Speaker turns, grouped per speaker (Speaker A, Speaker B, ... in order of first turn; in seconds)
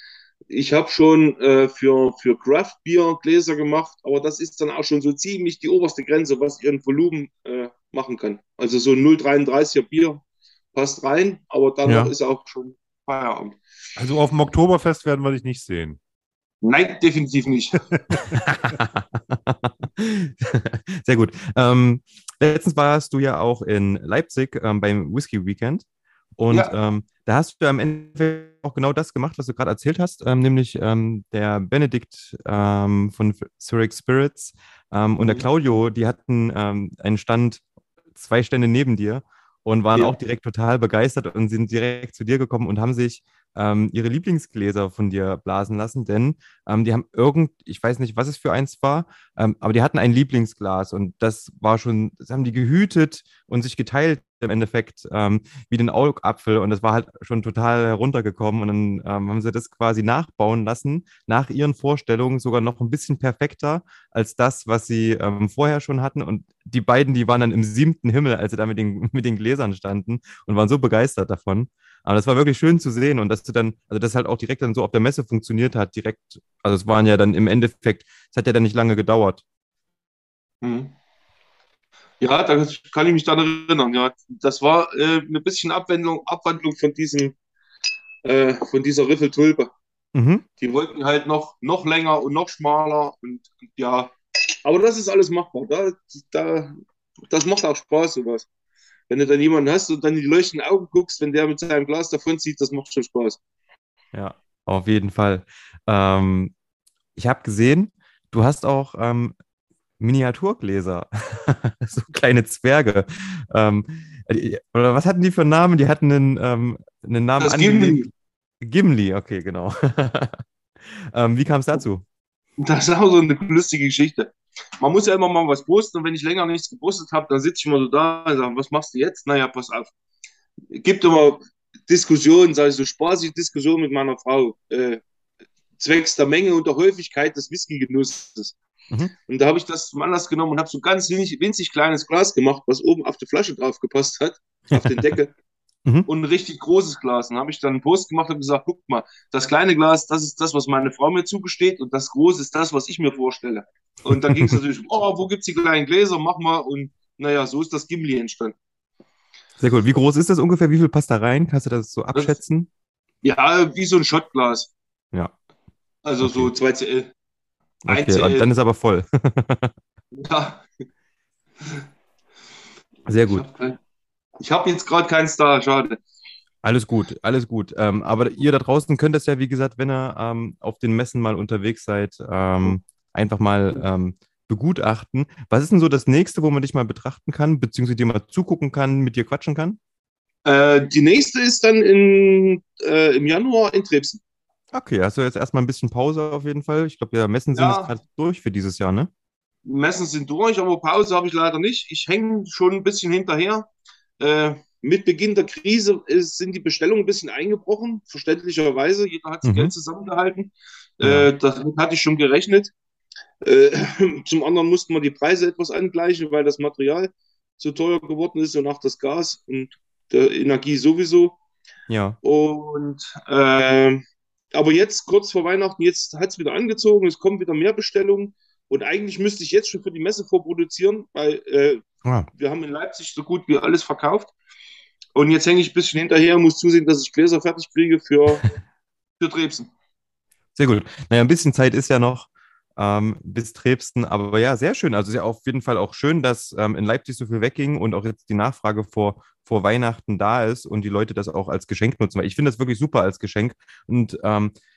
Speaker A: 0.5-10.2, 10.7-13.6, 16.6-17.9, 80.6-80.9, 82.2-87.4, 88.2-89.7, 90.6-96.8, 97.3-98.5, 99.1-103.4, 117.4-118.1, 122.6-129.9, 130.7-135.0, 135.8-138.6, 139.3-145.3, 146.1-158.6, 163.2-164.7, 166.1-167.1, 167.9-168.5, 170.1-170.7, 173.2-173.8, 174.4-176.0, 190.5-194.2, 197.5-197.9, 199.7-203.7, 204.2-212.7, 213.4-221.4, 222.2-224.0, 224.5-231.8, 232.3-234.3, 235.2-238.5, 239.2-239.7
Speaker B: 11.9-12.1, 18.3-25.8, 26.4-37.6, 38.2-79.4, 90.2-90.5, 104.1-106.5, 107.2-109.3, 110.0-120.4, 121.0-122.0, 159.6-162.7, 166.2-166.5, 167.8-169.7, 173.1-173.5, 176.6-189.8, 194.7-199.1, 209.4-209.7, 211.0-211.3, 221.9-222.2, 240.6-254.5
Speaker C: 14.0-16.0